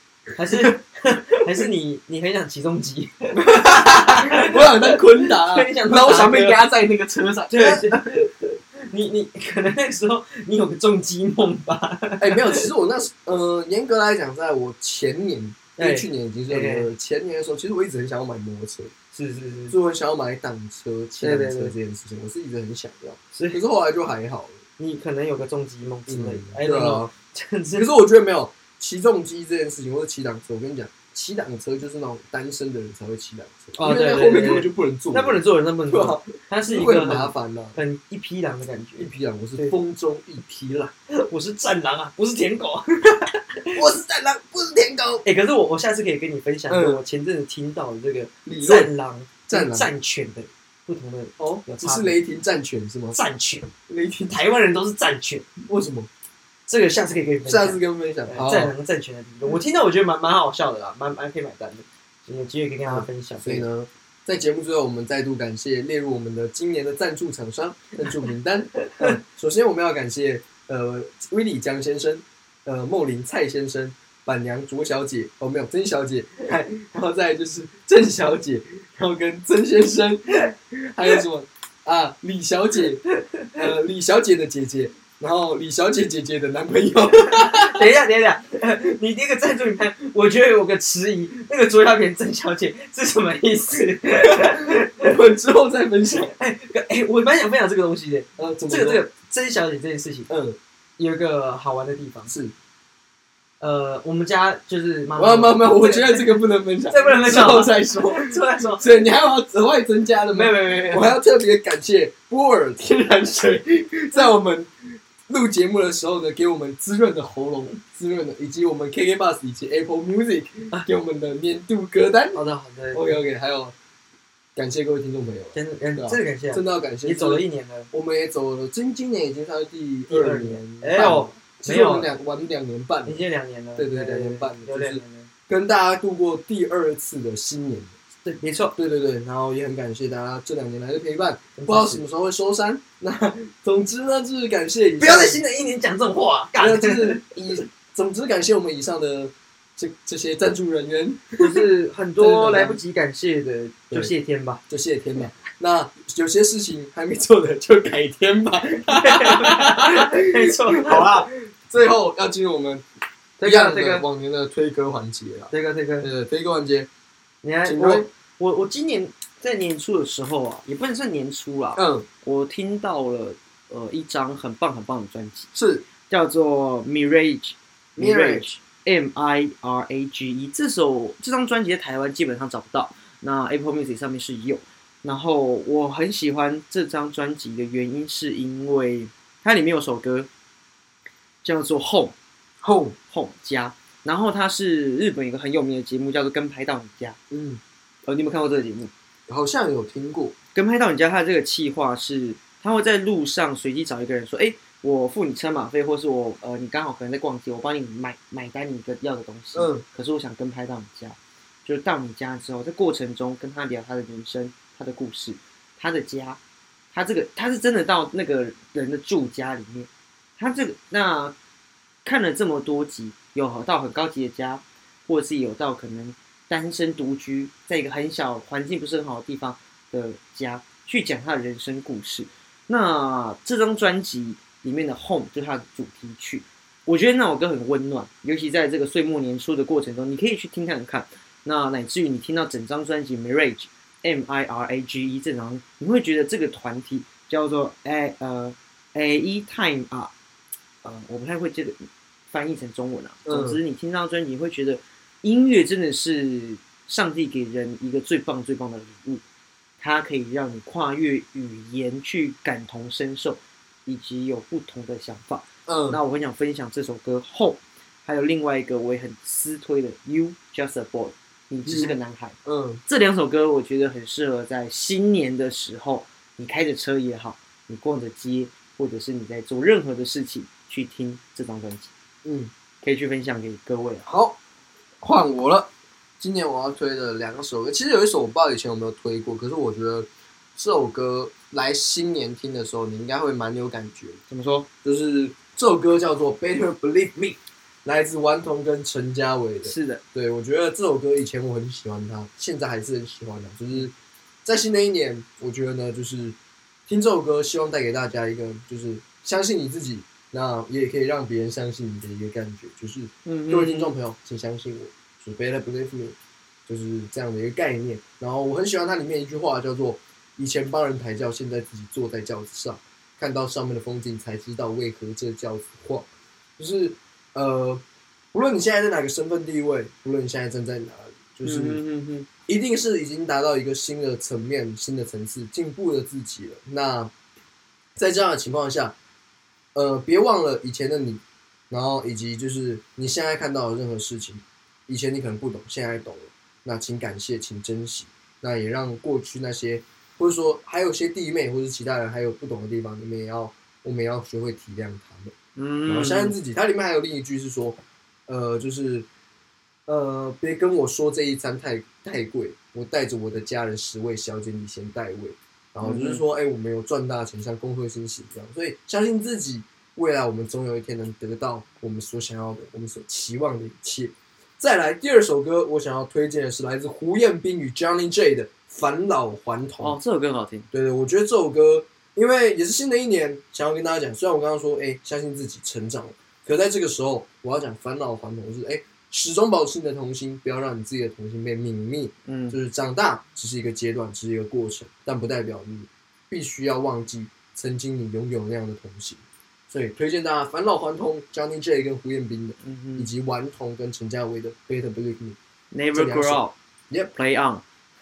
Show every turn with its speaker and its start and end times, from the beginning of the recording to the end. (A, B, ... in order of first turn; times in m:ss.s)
0:00.4-0:06.6 A
0:03.3-0:08.1 B
0:07.5-0:12.7 A
0:12.2-0:18.9 B
0:15.8-0:16.9 A
0:19.1-0:19.7 A
0:19.7-0:24.6 B
0:21.2-0:21.7 A
0:23.3-0:23.6 A
0:24.8-0:27.9 A
0:26.1-0:27.1 B
0:27.7-0:37.8 B
0:33.8-0:39.7 A
0:39.0-0:40.9 B
0:41.1-0:43.8 A
0:43.7-0:45.2 B
0:45.2-0:52.2 A
0:46.7-0:47.0 B
0:48.4-0:48.9 B
0:49.5-0:49.9 B
0:51.4-0:53.2 B
0:53.1-0:53.7 A
0:53.9-0:54.3 B
0:54.3-0:55.5 A
0:55.6-0:56.1 B
0:56.7-1:03.7 A
0:57.4-0:58.7 B
1:02.9-1:23.0 B
1:08.8-1:09.2 A
1:23.1-1:23.6 A
1:23.5-1:27.8 B
1:27.3-1:35.0 A
1:34.3-1:36.3 B
1:36.2-1:40.3 A
1:38.4-1:39.0 B
1:40.3-1:40.6 B
1:41.0-1:42.3 A
1:42.3-1:42.5 B
1:43.6-1:49.1 A
1:45.2-1:54.7 B
1:50.3-1:51.2 A
1:55.2-2:02.4 B
2:02.3-2:03.2 A
2:02.9-2:03.7 B
2:04.6-2:13.2 B
2:05.5-2:07.9 A
2:10.1-2:12.1 A
2:13.0-2:15.3 A
2:13.8-2:17.9 B
2:18.2-2:18.8 A
2:18.8-2:25.4 B
2:21.6-2:22.0 A
2:25.0-2:27.2 A
2:26.6-2:31.6 B
2:31.4-2:34.6 A
2:32.2-2:32.8 B
2:34.7-2:42.8 B
2:38.9-2:41.3 A
2:43.4-2:44.0 A
2:43.4-2:46.9 B
2:45.5-2:46.1 A
2:47.4-2:55.5 A
2:47.6-2:48.1 B
2:51.8-2:52.1 B
2:55.5-2:55.8 B
2:56.1-3:10.3 A
2:58.0-2:58.5 B
3:11.4-3:12.1 A
3:12.6-3:13.0 B
3:13.1-3:17.2 A
3:17.3-3:17.6 B
3:18.0-3:18.9 A
3:19.3-3:20.3 B
3:20.5-3:36.4 A
3:29.5-3:29.8 B
3:36.9-3:41.3 A
3:42.0-4:10.1 A
4:10.8-4:11.8 A
4:12.3-4:19.2 A
4:13.3-4:13.6 B
4:19.8-4:41.9 A
4:25.7-4:26.0 B
4:31.7-4:31.9 B
4:32.4-4:32.8 B
4:42.2-4:42.5 B
4:42.8-4:44.1 A
4:44.0-4:44.4 B
4:45.0-4:54.2 B
4:54.3-4:54.7 A
4:54.8-5:03.9 B
4:59.6-5:00.0 A
5:04.4-5:16.2 B
5:13.2-5:13.9 A
5:16.7-5:26.1 B
5:26.6-5:27.8 B
5:28.3-5:31.8 B
5:31.4-5:32.3 A
5:32.5-5:37.1 B
5:38.0-5:38.9 B
5:39.7-5:55.3 B
5:55.6-5:56.4 A
5:55.9-5:59.1 B
5:59.9-6:20.0 B
6:05.8-6:06.2 A
6:19.8-6:20.7 A
6:20.7-6:45.4 B
6:32.3-6:32.6 A
6:42.6-6:43.1 A
6:45.7-6:46.5 A
6:45.9-6:47.1 B
6:47.1-6:47.6 A